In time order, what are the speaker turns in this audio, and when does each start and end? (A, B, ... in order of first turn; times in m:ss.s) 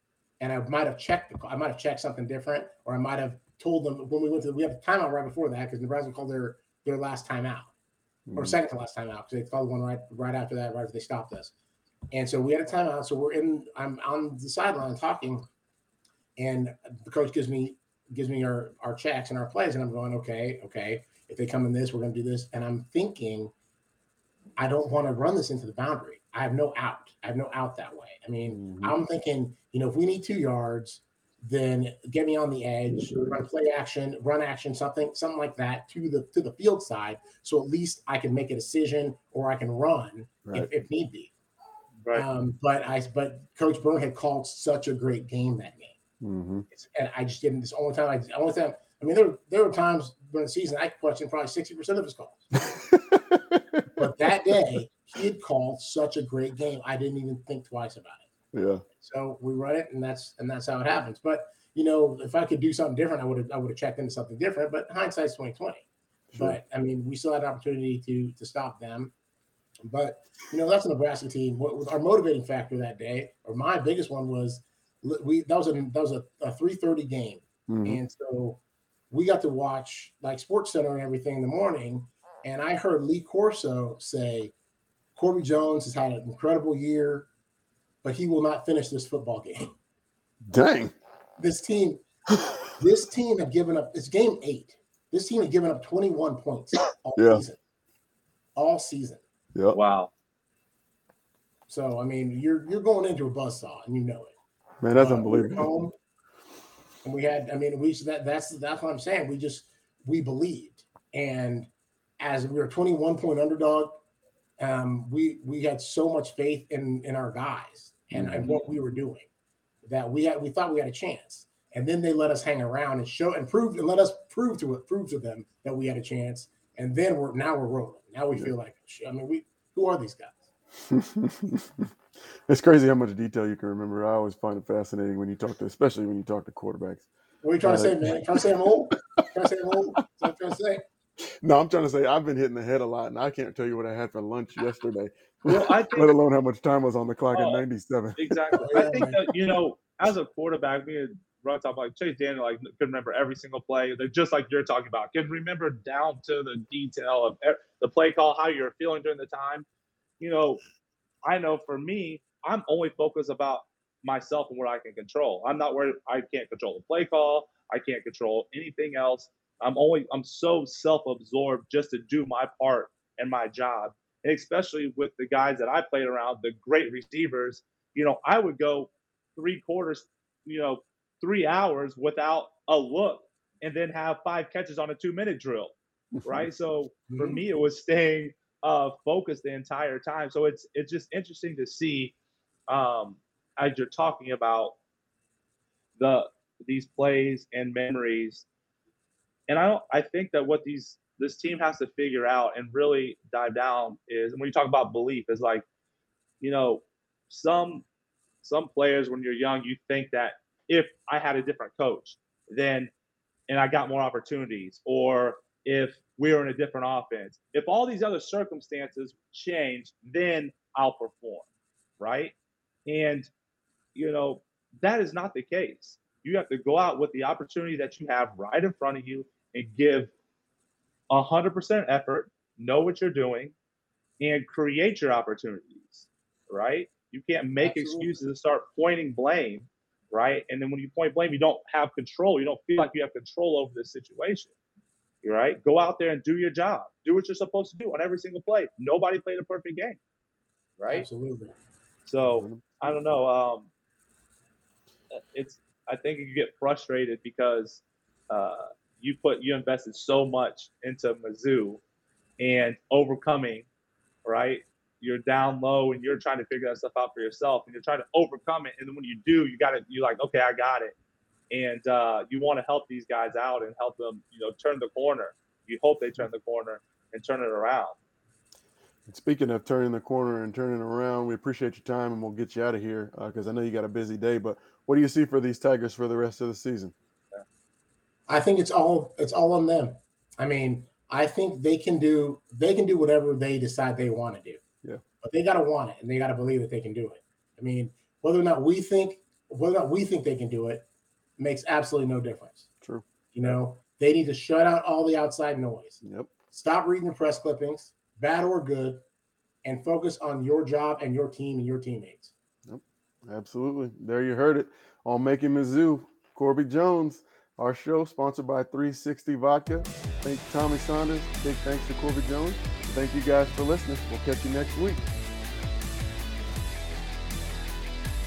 0:00.4-0:07.7 A
0:08.3-0:08.6 B
0:08.4-0:11.5 A
0:12.1-0:15.4 A
0:16.4-0:23.5 A
0:24.6-0:41.3 A
0:28.5-0:29.0 B
0:40.4-0:40.7 B
0:42.1-0:46.0 A
0:46.2-0:46.6 B
0:46.7-0:52.4 A
0:52.7-0:53.6 B
0:54.0-0:58.2 A
0:58.5-0:58.8 B
0:59.0-1:05.8 A
1:06.3-1:06.6 B
1:06.4-1:09.1 A
1:09.8-1:24.5 A
1:17.7-1:18.0 B
1:25.2-1:27.3 A
1:28.0-1:29.7 A
1:30.5-1:30.9 B
1:31.4-1:32.0 A
1:32.7-1:37.6 A
1:37.2-1:37.4 B
1:38.6-1:39.2 A
1:39.7-1:40.1 C
1:41.7-1:44.3 A
1:44.8-1:45.7 B
1:44.9-1:45.9 A
1:47.0-1:51.7 A
1:52.2-1:54.0 A
1:54.6-1:59.3 A
1:58.1-1:58.5 B
1:59.8-2:10.4 A
2:10.9-2:11.9 B
2:12.5-2:17.1 B
2:17.4-2:20.8 A
2:17.6-2:18.2 B
2:21.2-2:28.6 B
2:25.4-2:26.2 C
2:27.3-2:27.6 C
2:28.2-2:39.6 C
2:28.6-2:29.2 A
2:40.2-2:40.6 C
2:41.2-3:12.1 C
3:06.2-3:06.5 B
3:07.1-3:07.4 A
3:12.7-3:14.8 C
3:16.0-3:18.4 C
3:19.5-3:25.6 C
3:26.4-3:27.8 C
3:28.4-3:32.9 C
3:33.5-3:41.4 C
3:42.0-3:42.3 C
3:42.9-3:43.3 C
3:43.9-3:50.1 C
3:51.1-3:53.5 C
3:54.2-4:04.5 C
3:57.6-3:58.2 A
4:05.2-4:10.0 C
4:10.8-4:11.1 C
4:10.9-4:11.5 A
4:12.1-4:13.7 C
4:12.3-4:13.0 B
4:15.1-4:21.8 C
4:22.4-4:23.7 C
4:24.2-4:30.9 C
4:31.5-4:37.9 C
4:39.1-4:46.9 B
4:48.3-4:54.6 A
4:55.2-5:00.8 A
5:01.4-5:02.6 A
5:02.8-5:03.5 B
5:03.3-5:09.0 A
5:06.0-5:06.3 B
5:09.6-5:12.3 A
5:12.6-5:25.0 B